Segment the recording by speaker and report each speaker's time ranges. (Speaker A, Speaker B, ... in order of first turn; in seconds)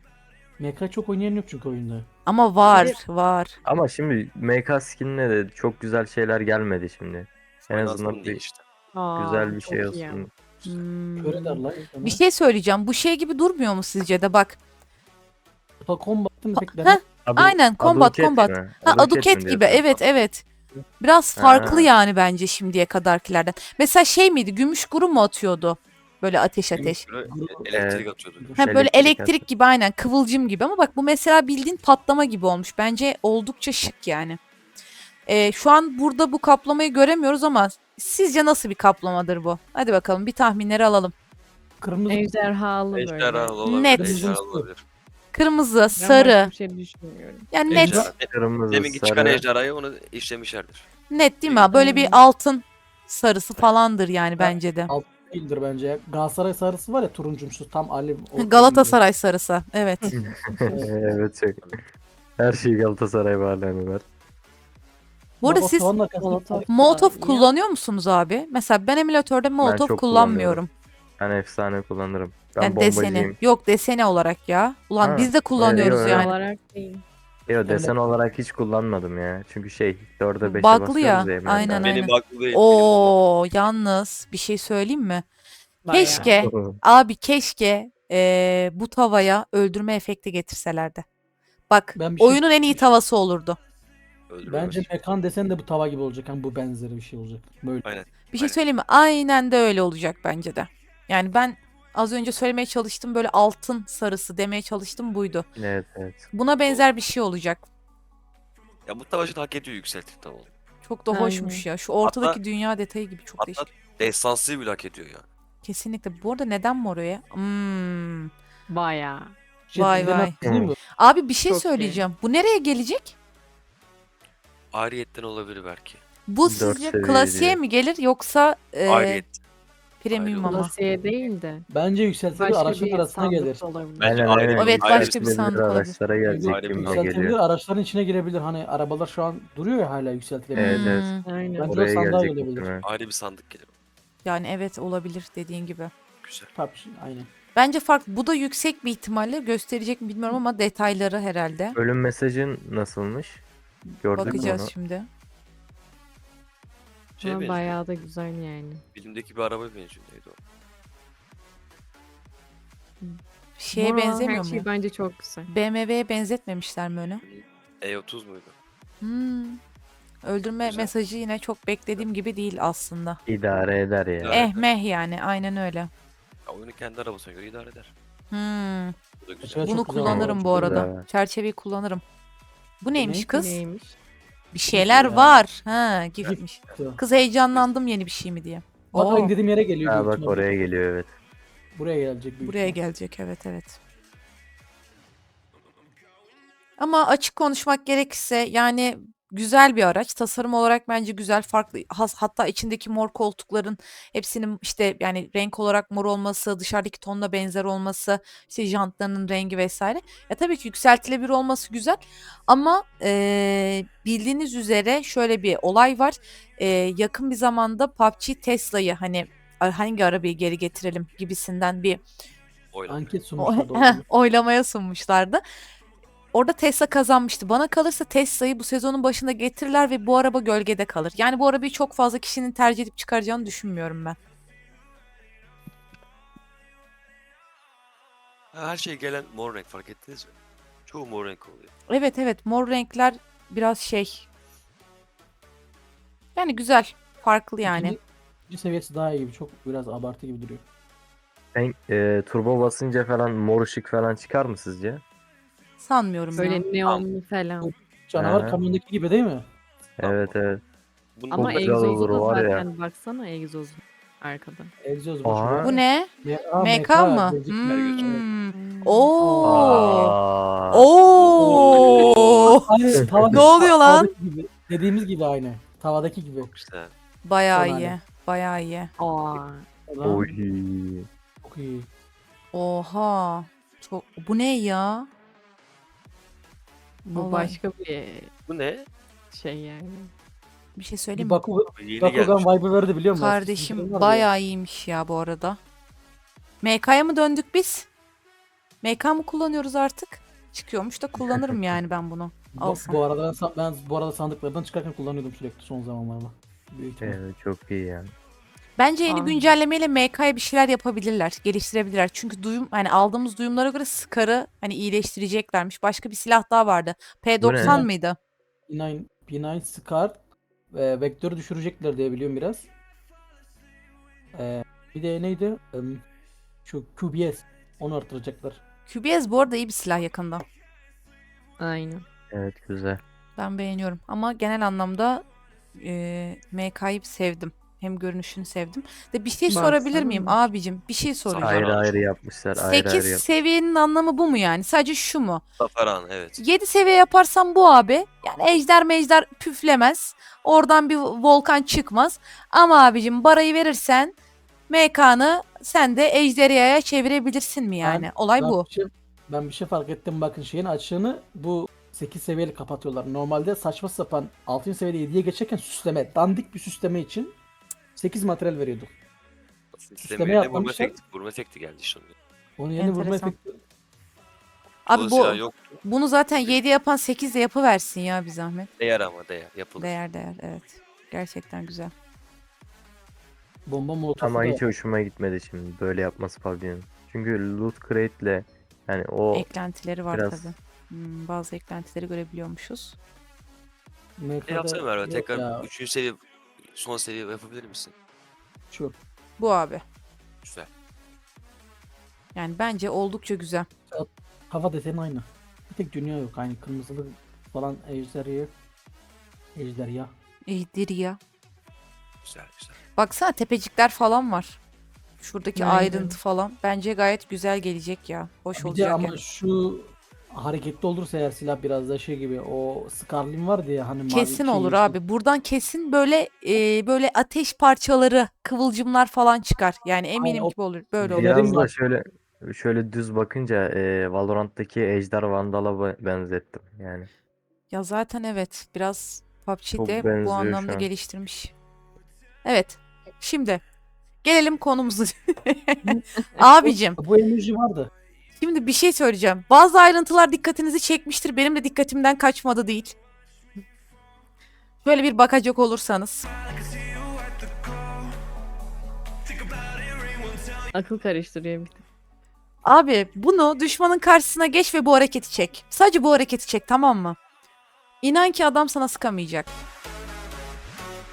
Speaker A: 0.6-2.1, 11.2-12.2, 15.8-17.0, 26.7-27.7, 28.4-28.6, 41.8-42.2, 43.9-44.7, 47.7-48.1, 54.4-59.0, 65.4-66.7, 77.7-78.0, 91.9-92.9, 94.5-98.0, 119.7-120.8, 131.7-133.6, 136.2-141.0, 141.5-142.7, 146.5-147.3, 153.9-154.5, 179.4-180.9, 182.9-183.3, 184.7-185.4, 188.9-190.6, 191.7-192.8, 222.9-224.0, 247.6-250.6, 257.6-259.4, 264.8-268.2, 271.4-271.7, 272.5-276.5, 277.5-277.9, 279.9-280.3, 281.4-281.9, 291.1-294.3, 302.5-307.2, 309.1-309.4, 317.6-317.9, 318.7-320.2, 320.7-322.7, 324.3-326.0, 326.6-328.6, 357.8-367.4, 367.9-368.9, 370.0-371.0, 372.6-373.6, 383.6-384.6, 394.2-395.7, 403.9-408.5, 409.5-410.1, 418.6-425.0, 430.1-431.7, 446.6-447.9
Speaker B: 2.2-3.5, 10.6-14.6, 16.6-20.4, 21.0-27.0, 28.6-34.4, 35.2-41.1, 43.6-44.3, 45.3-46.5, 47.5-48.1, 51.1-54.9, 58.4-60.1, 65.4-65.9, 66.7-70.7, 72.6-76.3, 80.4-85.2, 85.9-91.0, 91.7-93.6, 98.3-105.5, 106.3-107.6, 110.8-113.7, 115.6-118.3, 119.7-120.3, 120.9-123.1, 126.3-129.2, 130.0-130.7, 134.5-136.0, 140.5-141.2, 144.2-145.9, 147.5-151.8, 154.1-155.1, 163.6-164.7, 165.5-167.2, 169.0-169.6, 170.2-173.2, 174.3-175.9, 178.3-178.9, 179.6-182.0, 182.8-183.6, 184.5-189.3, 192.4-193.8, 196.8-222.0, 223.4-225.4, 226.3-234.2, 241.9-244.3, 246.3-247.9, 255.8-256.6, 265.6-270.1, 270.7-272.6, 273.3-274.1, 277.2-278.9, 282.5-285.1, 287.1-287.6, 290.7-291.4, 293.1-295.6, 296.6-297.9, 298.8-303.0, 308.8-318.1, 328.9-330.4, 333.4-335.2, 335.8-341.7, 342.6-345.4, 346.4-354.1, 354.7-358.6, 372.8-373.3, 374.9-378.7, 379.8-381.9, 389.3-393.0, 399.4-399.8, 402.3-403.7, 410.5-411.2, 412.9-414.6, 415.2-419.1, 424.1-431.6, 437.7-441.5, 442.4-443.6, 444.2-447.0, 448.4-452.9, 454.8-456.3, 462.6-467.2, 468.0-469.5
Speaker C: 2.6-3.0, 8.9-10.3, 42.1-43.6, 45.9-47.6, 51.7-52.2, 60.0-60.8, 66.2-67.5, 75.7-77.0, 85.8-86.4, 111.1-111.6, 118.7-119.3, 121.5-122.0, 130.4-131.7, 132.3-134.1, 141.2-141.7, 157.2-158.8, 163.7-165.5, 183.3-183.9, 256.3-257.7, 261.3-264.7, 268.5-269.7, 279.0-279.6, 287.0-288.3, 289.3-290.1, 331.6-332.0, 339.5-340.4, 415.6-416.2, 446.2-446.4, 460.7-461.8
Speaker D: 3.6-8.4, 9.2-10.3, 17.2-20.0, 21.4-21.9, 27.7-28.0, 28.6-29.4, 48.3-49.4, 60.6-61.7, 62.4-64.0, 69.6-70.6, 71.2-73.4, 75.0-76.3, 77.5-82.0, 86.3-86.8, 105.5-106.3, 120.4-120.8, 126.4-127.6, 134.0-137.3, 140.6-141.1, 141.7-142.8, 151.7-153.4, 154.0-154.7, 173.3-174.4, 180.0-181.0, 189.8-191.1, 251.5-255.0, 258.2-258.6, 260.0-260.6, 261.3-262.6, 265.2-265.7, 269.4-270.9, 273.2-273.4, 280.0-281.1, 307.0-308.1, 317.4-317.8, 332.3-333.0, 341.4-343.2, 384.2-389.5, 390.1-390.5, 431.0-437.1, 439.8-440.9
Speaker E: 7.7-8.6, 27.0-28.5, 42.9-44.8, 47.7-50.9, 51.4-51.7, 61.0-61.8, 81.8-83.2, 94.3-94.9, 97.8-98.6, 108.8-110.5, 112.0-112.4, 113.4-115.3, 124.7-126.0, 128.9-129.4, 130.1-130.6, 134.0-135.3, 136.4-137.1, 142.8-143.7, 146.2-146.5, 157.2-157.8, 158.9-160.4, 167.2-168.5, 170.6-170.9, 174.2-174.7, 176.4-177.9, 179.2-179.9, 186.2-186.8, 222.7-223.0, 238.5-240.3, 240.8-241.7, 259.9-260.3, 261.1-262.1, 267.6-268.2, 271.1-272.6, 276.4-276.9, 288.5-288.9, 291.8-292.5, 341.2-342.0, 345.6-346.4, 369.7-372.1, 374.9-375.8, 378.8-380.0, 394.5-397.9, 400.4-400.7, 412.2-412.8